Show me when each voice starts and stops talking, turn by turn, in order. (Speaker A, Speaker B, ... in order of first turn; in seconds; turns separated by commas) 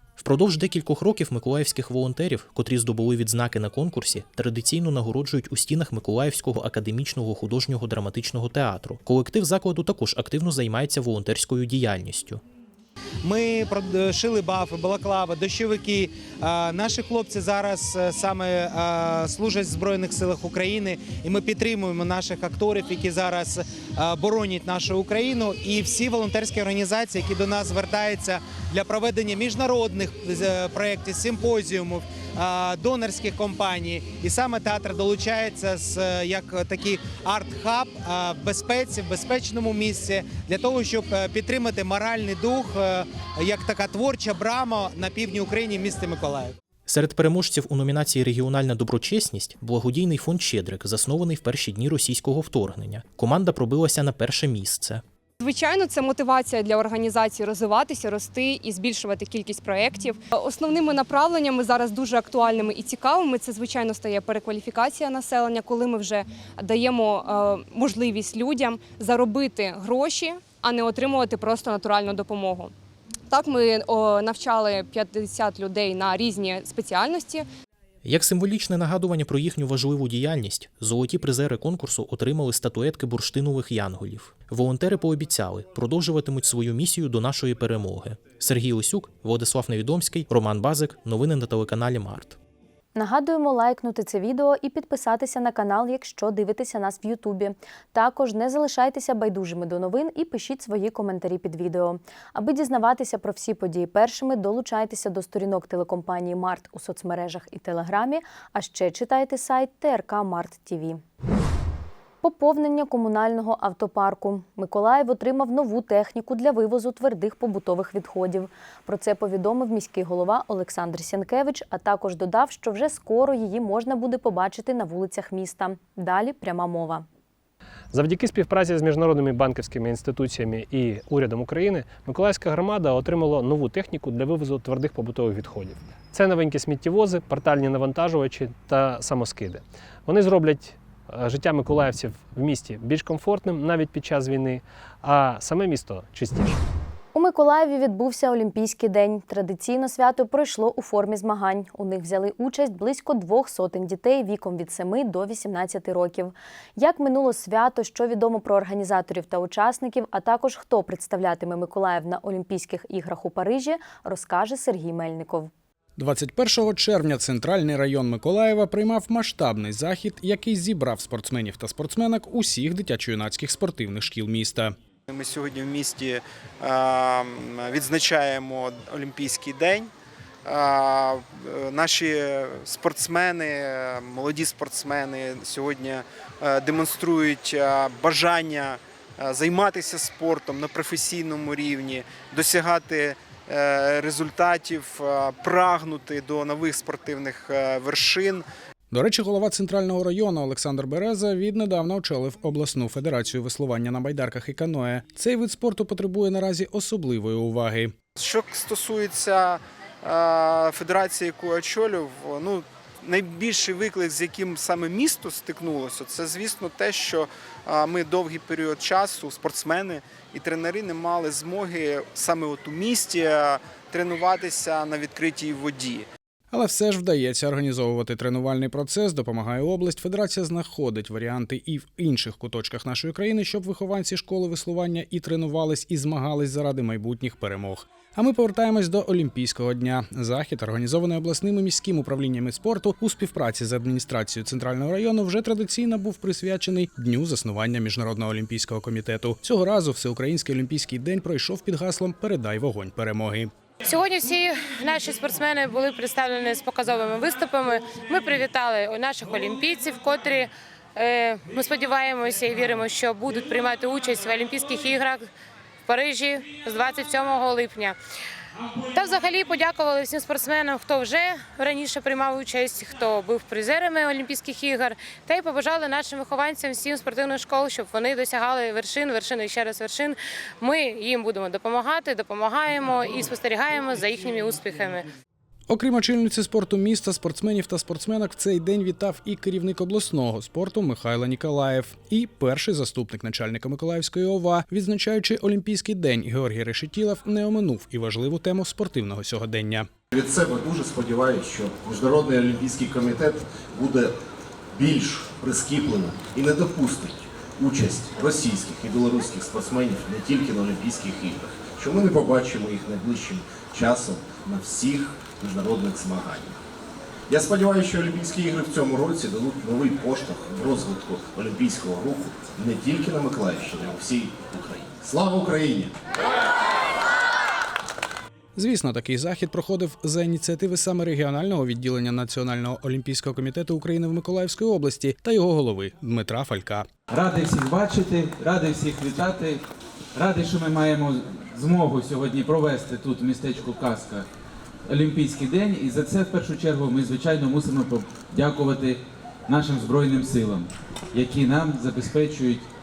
Speaker A: 0.2-12.4, Speaker B: 13.2-46.5, Speaker A: 46.9-55.0, Speaker C: 55.4-72.7, Speaker C: 73.3-77.5, Speaker A: 78.0-92.4, Speaker D: 93.0-111.0, Speaker D: 112.2-127.0, Speaker E: 127.9-146.6, Speaker D: 147.1-165.5, Speaker F: 166.0-174.7, Speaker G: 175.1-179.9, Speaker G: 180.5-198.4, Speaker F: 198.9-207.9, Speaker G: 208.2-226.1, Speaker F: 226.5-253.5, Speaker H: 253.9-265.3, Speaker H: 265.9-268.0, Speaker H: 268.9-285.1, Speaker F: 285.7-299.9, Speaker I: 300.1-304.1, Speaker I: 304.7-316.6, Speaker I: 317.3-325.9, Speaker F: 328.6-336.9, Speaker J: 337.1-339.6, Speaker J: 340.2-344.3, Speaker J: 344.9-352.7